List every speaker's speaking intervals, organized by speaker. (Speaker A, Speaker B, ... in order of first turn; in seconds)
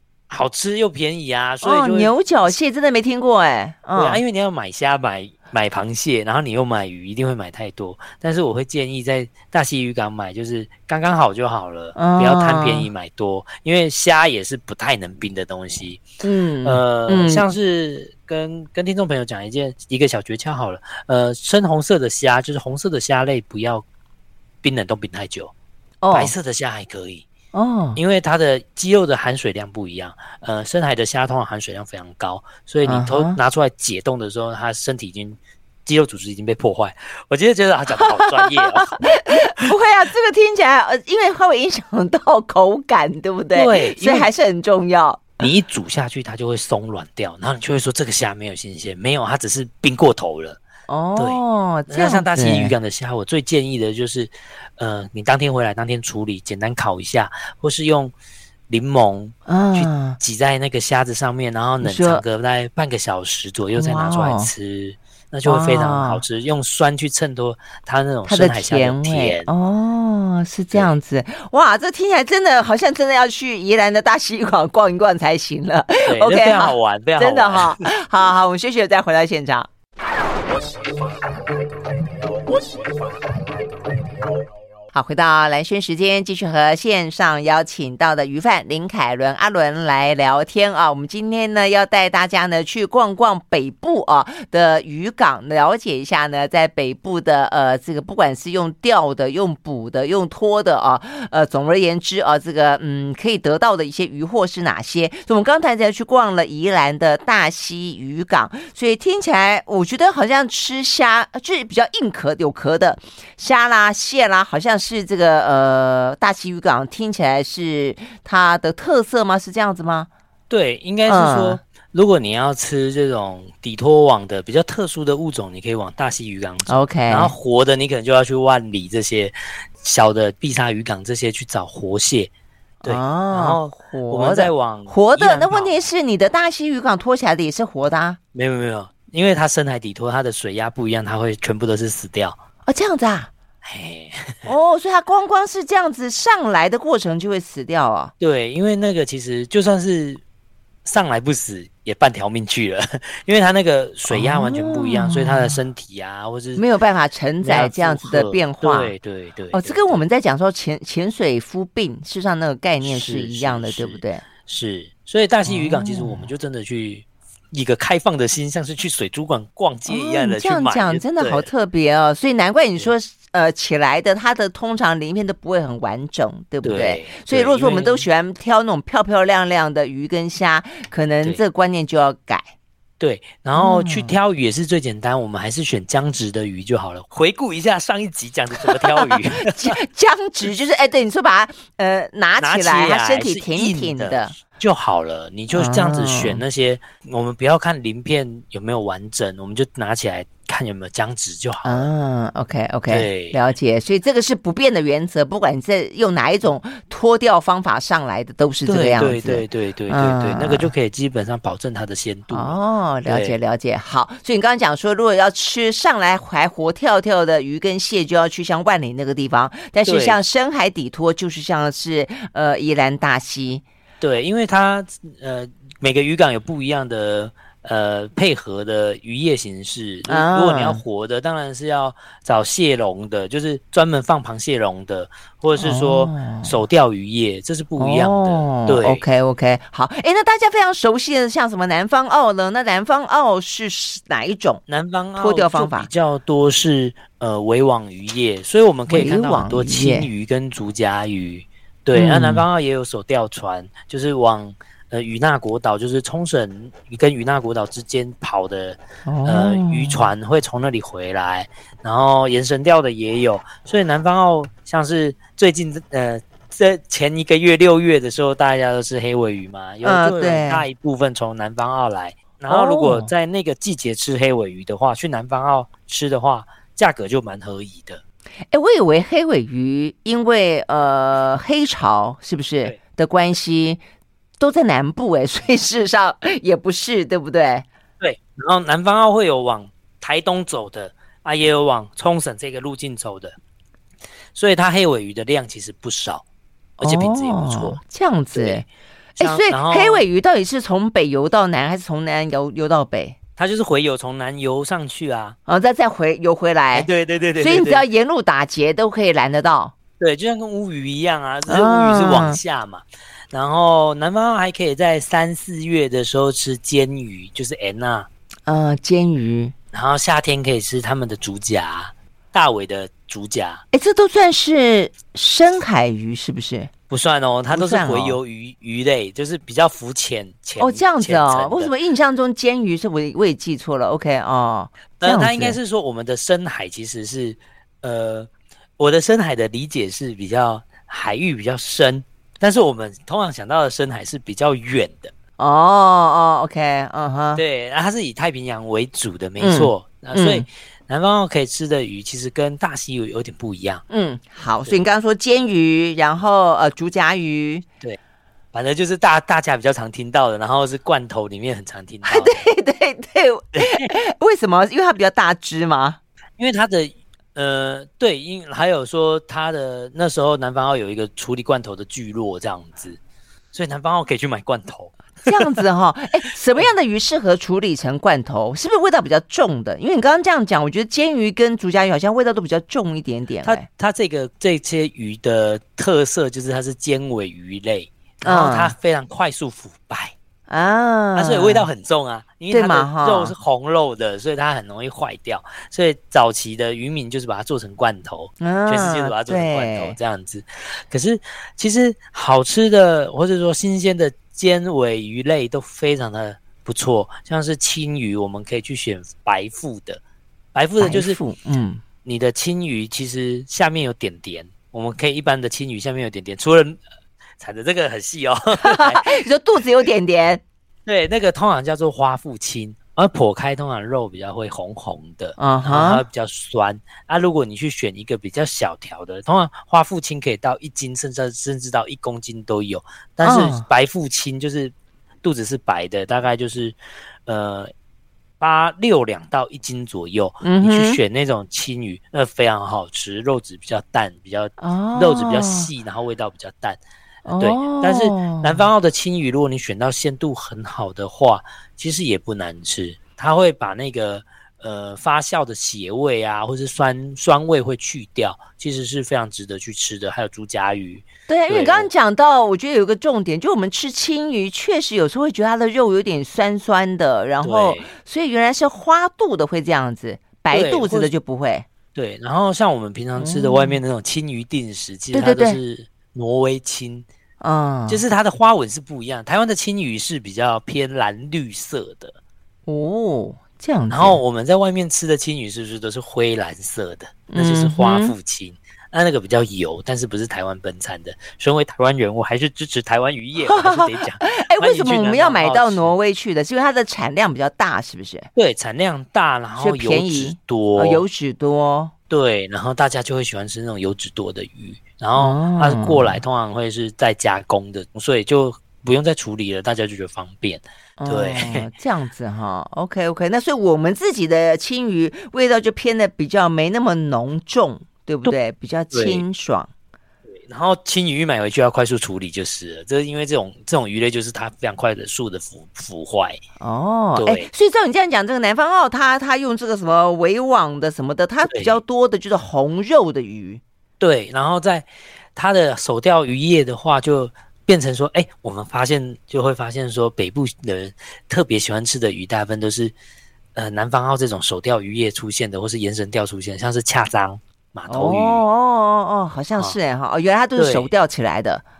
Speaker A: 0.3-2.5, 4.0-16.0, 16.6-23.8, 24.6-25.5, 26.1-27.2, 27.9-39.7, 43.5-44.3, 45.4-50.6, 51.2-58.1, 58.7-69.5, 76.1-77.8, 120.5-132.3, 132.8-135.9, 138.3-142.4, 143.6-144.5, 148.2-150.2, 150.8-156.6, 157.4-160.0, 162.8-171.5, 176.6-178.1, 183.0-189.8, 192.4-201.9, 202.9-203.4, 208.7-213.4, 219.8-220.2, 224.0-239.0, 244.7-278.0, 288.0-293.3, 294.3-296.2, 296.8-297.8, 298.3-298.6, 299.2-300.0, 303.4-305.4, 306.7-307.8, 310.0-318.1, 319.7-323.6, 326.9-331.7, 335.0-345.1, 347.3-353.8, 358.5-362.4, 363.5-363.9, 366.4-373.0, 373.5-375.5, 383.4-390.1, 391.1-410.0, 410.5-411.2, 412.0-416.8, 417.4-419.2, 420.9-437.7, 438.4-446.8, 447.4-461.9, 467.4-467.9, 470.5-471.1, 471.9-477.1, 477.9-482.2, 483.9-495.9, 498.4-501.0, 502.1-511.6, 518.9-519.2, 520.3-526.4, 527.2-527.5, 531.5-531.8, 534.0-542.9, 543.5-548.4, 550.5-550.9
Speaker B: 1.6-4.2, 11.9-12.9, 16.2-17.5, 26.0-26.3, 27.5-28.0, 32.8-33.4, 37.9-45.4, 50.9-52.7, 59.5-60.2, 61.8-62.2, 63.7-64.5, 65.4-66.2, 68.2-79.7, 84.9-120.1, 121.1-121.6, 126.7-127.3, 132.8-138.2, 142.7-143.3, 144.4-148.1, 154.1-155.6, 156.6-158.9, 159.5-164.2, 165.4-166.3, 169.9-182.5, 183.6-184.1, 188.6-194.3, 195.5-196.4, 201.6-210.7, 212.3-223.6, 230.1-230.8, 235.6-236.6, 237.8-244.6, 245.2-245.9, 248.9-250.1, 251.9-252.4, 259.1-260.1, 269.8-270.6, 272.5-273.1, 278.5-283.8, 284.4-287.6, 296.8-298.6, 299.2-303.1, 305.5-309.7, 311.5-312.4, 318.5-319.5, 323.7-326.7, 327.5-328.2, 330.6-335.6, 345.4-347.4, 349.4-350.4, 353.9-357.6, 362.1-366.0, 375.2-383.6, 388.2-388.7, 390.5-391.7, 392.5-393.3, 398.4-400.0, 410.8-411.8, 418.6-420.4, 425.4-426.0, 433.2-433.6, 440.4-441.0, 444.6-445.7, 447.2-448.7, 461.3-471.6, 473.2-473.8, 475.1-475.6, 477.4-478.0, 482.7-484.2, 487.3-488.1, 493.4-498.3, 499.6-501.9, 505.2-506.2, 511.0-519.7, 526.6-533.6, 547.9-551.6